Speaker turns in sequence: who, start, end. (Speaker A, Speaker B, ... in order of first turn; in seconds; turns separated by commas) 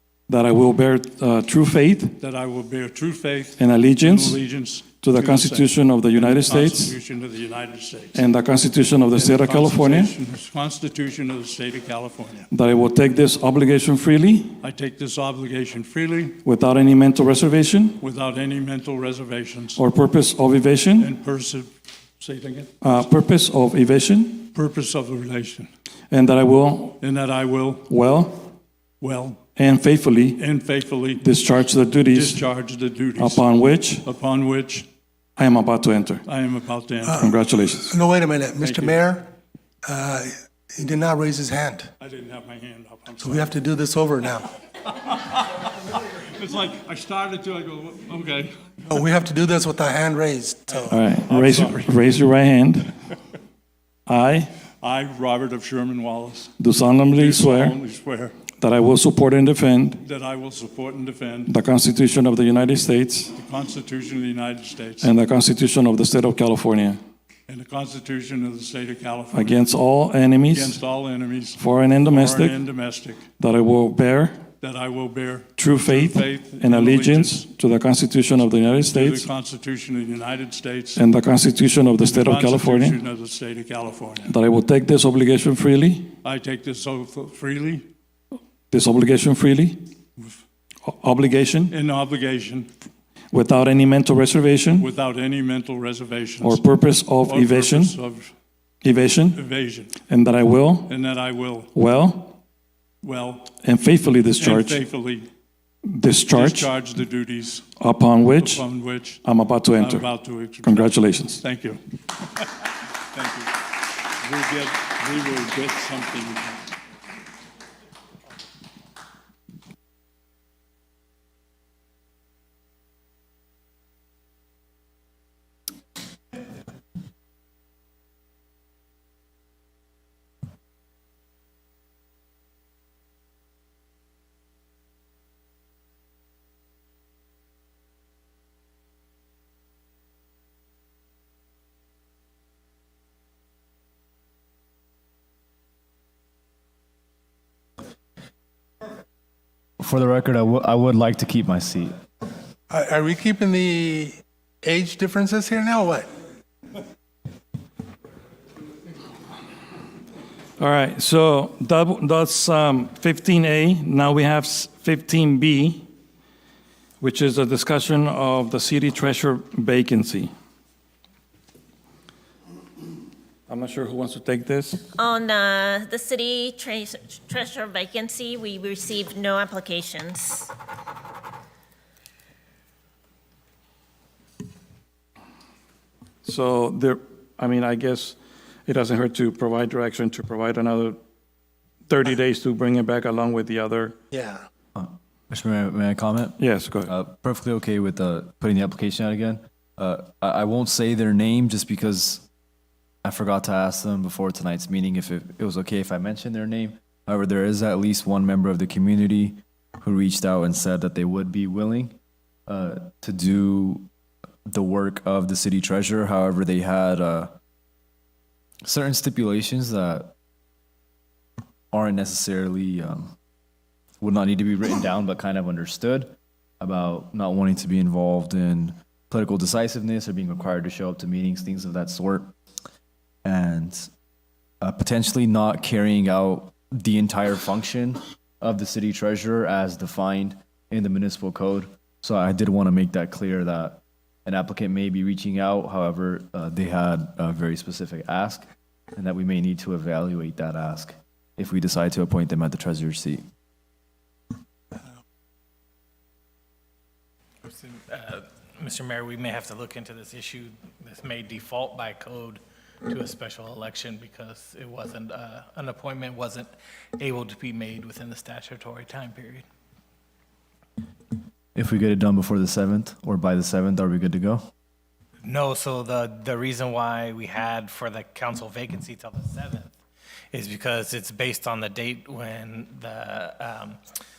Speaker A: 0.3-2.2, Speaker B: 2.2-8.2, Speaker A: 3.6-4.4, Speaker A: 5.0-6.9, Speaker A: 8.1-10.1, Speaker B: 9.1-12.5, Speaker A: 12.5-14.5, Speaker B: 14.6-16.4, Speaker A: 16.4-18.0, Speaker B: 18.0-19.8, Speaker A: 19.8-21.1, Speaker B: 21.0-23.1, Speaker A: 22.8-24.5, Speaker B: 24.5-25.7, Speaker A: 26.1-27.0, Speaker B: 27.0-27.9, Speaker A: 27.9-28.5, Speaker B: 29.0-29.5, Speaker A: 29.6-30.4, Speaker B: 30.4-31.2, Speaker A: 31.2-32.5, Speaker B: 32.1-33.5, Speaker A: 33.1-34.0, Speaker B: 34.0-34.9, Speaker A: 35.4-36.2, Speaker B: 36.3-37.3, Speaker C: 37.1-37.3, Speaker A: 37.2-37.9, Speaker C: 37.9-39.3, Speaker B: 38.6-39.0, Speaker C: 39.8-41.9, Speaker B: 42.0-43.6, Speaker C: 43.2-44.5, Speaker B: 44.9-48.8, Speaker C: 48.9-51.0, Speaker B: 50.7-52.1, Speaker A: 50.9-52.9, Speaker A: 54.1-54.5, Speaker B: 54.8-56.5, Speaker A: 56.6-57.8, Speaker B: 57.1-58.4, Speaker A: 58.6-60.0, Speaker B: 60.0-61.5, Speaker A: 61.5-63.3, Speaker B: 63.3-65.1, Speaker A: 65.0-67.0, Speaker B: 67.5-69.7, Speaker A: 69.3-70.8, Speaker B: 70.5-73.2, Speaker A: 71.5-72.6, Speaker A: 73.4-74.4, Speaker B: 74.6-77.5, Speaker A: 75.5-79.3, Speaker B: 78.9-81.0, Speaker A: 80.9-83.0, Speaker B: 82.0-84.3, Speaker A: 84.3-86.1, Speaker B: 86.2-87.8, Speaker A: 88.7-89.8, Speaker A: 90.8-91.7, Speaker B: 91.7-92.7, Speaker A: 93.3-94.9, Speaker B: 94.8-96.6, Speaker A: 96.4-98.0, Speaker B: 97.2-98.3, Speaker A: 98.8-99.4, Speaker B: 99.3-99.9, Speaker A: 100.1-100.9, Speaker B: 100.9-101.7, Speaker A: 101.7-102.4, Speaker B: 103.0-103.5, Speaker A: 103.6-104.8, Speaker B: 104.3-105.3, Speaker A: 105.9-106.7, Speaker B: 106.3-107.7, Speaker A: 107.8-108.7, Speaker B: 108.3-109.2, Speaker A: 109.2-111.4, Speaker B: 109.8-111.8, Speaker B: 113.1-116.6, Speaker D: 149.8-151.9, Speaker C: 152.7-156.1, Speaker A: 160.6-165.9, Speaker A: 167.0-170.3, Speaker A: 173.5-174.9, Speaker E: 175.0-180.5, Speaker A: 186.2-191.0, Speaker A: 191.9-194.0, Speaker C: 194.1-194.4, Speaker D: 194.7-202.2, Speaker A: 196.4-196.9, Speaker D: 203.0-211.9, Speaker D: 212.5-213.9, Speaker D: 214.5-217.3, Speaker D: 218.6-220.1, Speaker D: 221.7-223.1, Speaker D: 224.0-232.3, Speaker D: 233.2-233.9, Speaker D: 234.6-253.2, Speaker F: 257.4-269.4, Speaker D: 271.5-274.5, Speaker F: 275.2-279.7, Speaker F: 280.3-283.8